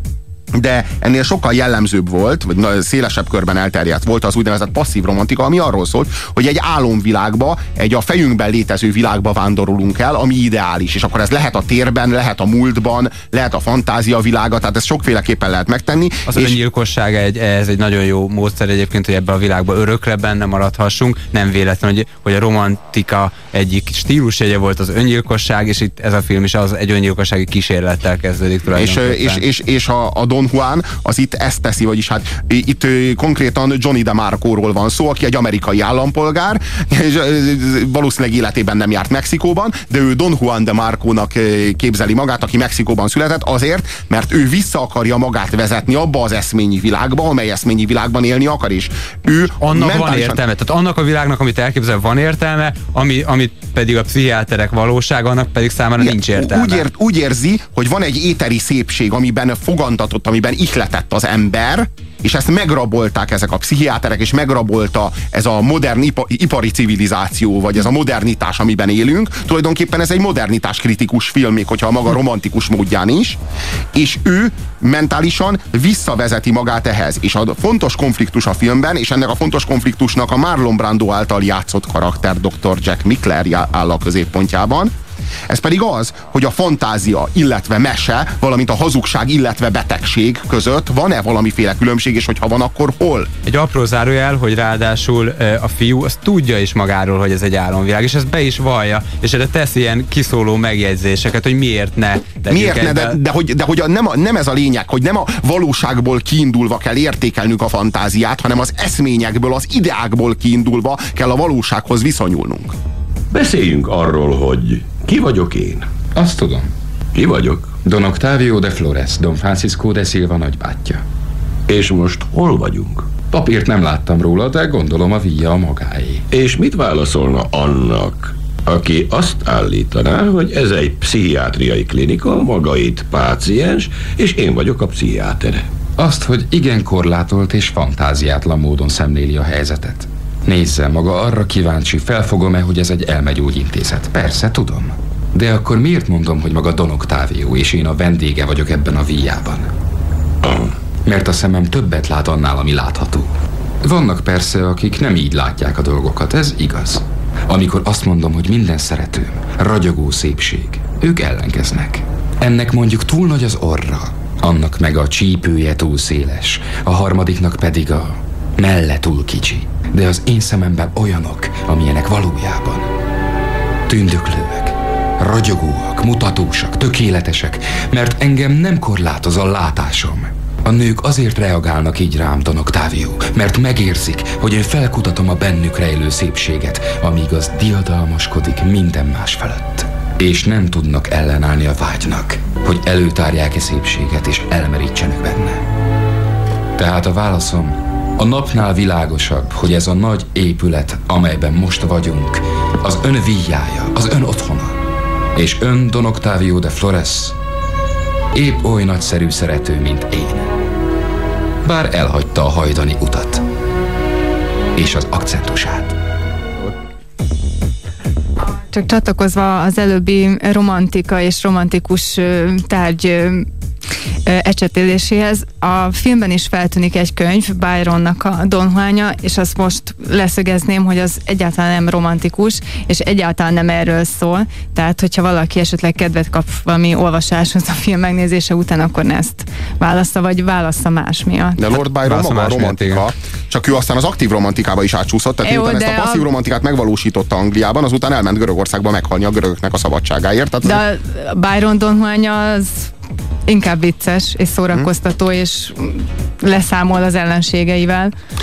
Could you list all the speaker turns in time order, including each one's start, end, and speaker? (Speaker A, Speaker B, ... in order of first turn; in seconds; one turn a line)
Speaker A: 0.5-16.6
Speaker B: 16.3-29.4
Speaker A: 28.7-50.4
Speaker B: 49.6-56.9
Speaker A: 56.0-73.4
Speaker A: 73.9-84.9
Speaker A: 85.5-93.3
Speaker B: 93.5-103.2
Speaker A: 102.5-112.7
Speaker C: 113.3-115.9
Speaker D: 116.1-116.7
Speaker C: 117.1-117.8
Speaker D: 117.8-121.0
Speaker C: 121.7-123.1
Speaker D: 123.3-126.2
Speaker C: 126.3-135.7
Speaker D: 136.0-149.7
Speaker D: 151.0-153.3
Speaker D: 153.8-172.9
Speaker D: 173.9-195.7
Speaker D: 196.8-204.8
Speaker D: 205.3-207.4
Speaker D: 208.3-210.5
Speaker D: 211.6-213.4
Speaker D: 214.7-216.0
Speaker E: 218.7-223.5
Speaker E: 224.2-241.6
Speaker A: 241.6-250.8
Speaker B: 241.7-243.0
Speaker E: 245.4-246.3
Speaker E: 250.6-252.9
Speaker E: 253.5-258.1